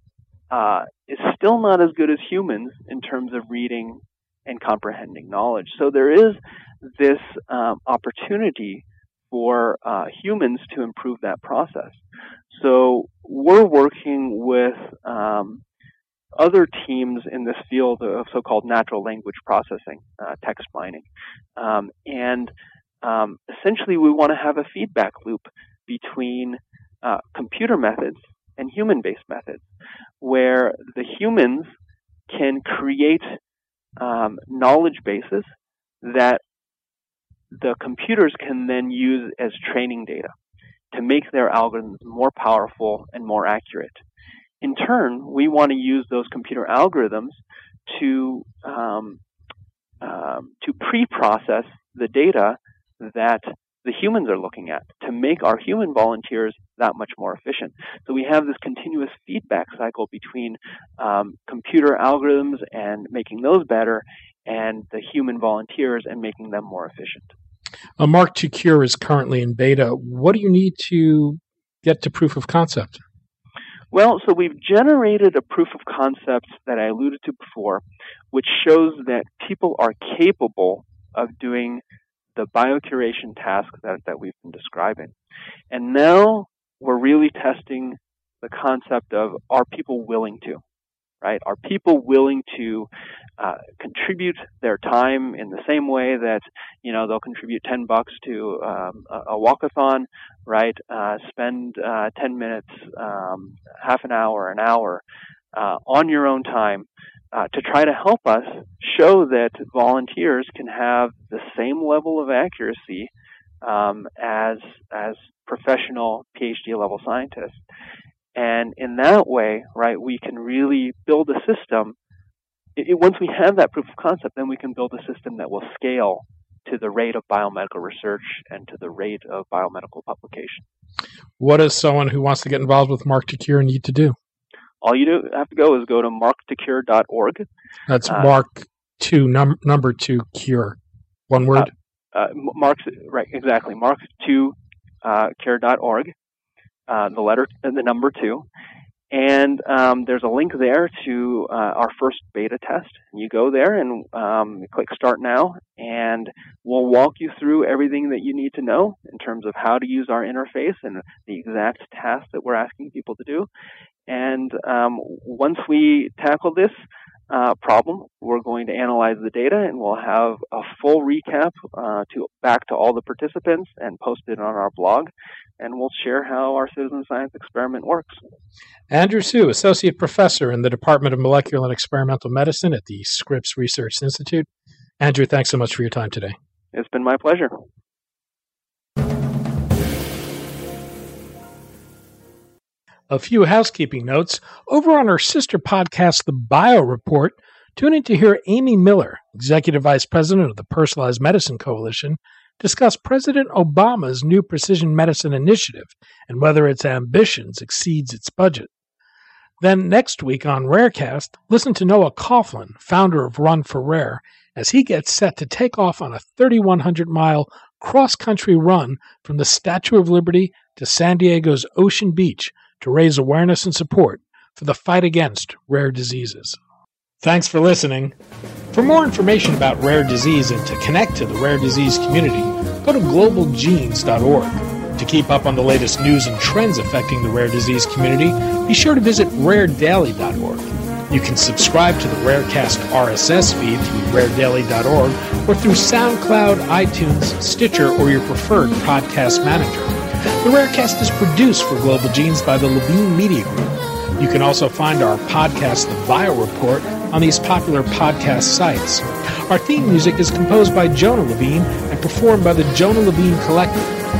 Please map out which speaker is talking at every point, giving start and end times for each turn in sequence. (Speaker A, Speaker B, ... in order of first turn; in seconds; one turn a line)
Speaker A: 0.5-15.6
Speaker A: 16.4-22.5
Speaker A: 23.0-29.7
Speaker A: 30.2-31.7
Speaker A: 32.3-33.2
Speaker A: 34.0-35.5
Speaker A: 36.0-36.4
Speaker A: 37.5-40.3
Speaker A: 40.9-44.0
Speaker A: 44.6-49.2
Speaker A: 50.0-67.3
Speaker B: 68.0-73.0
Speaker A: 73.9-81.8
Speaker A: 82.3-85.1
Speaker A: 85.7-90.6
Speaker A: 91.2-105.0
Speaker A: 105.5-113.1
Speaker A: 113.6-117.6
Speaker A: 118.3-121.9
Speaker A: 122.8-130.6
Speaker B: 131.4-134.1
Speaker A: 134.8-137.4
Speaker B: 137.9-141.7
Speaker A: 138.1-138.3
Speaker A: 141.6-146.1
Speaker A: 146.9-148.4
Speaker A: 149.1-163.5
Speaker A: 164.1-166.7
Speaker A: 167.3-178.2
Speaker B: 178.9-184.5
Speaker B: 185.0-186.3
Speaker A: 186.7-187.5
Speaker B: 193.1-208.7
Speaker B: 209.6-226.6
Speaker B: 227.2-228.1
Speaker B: 228.7-263.9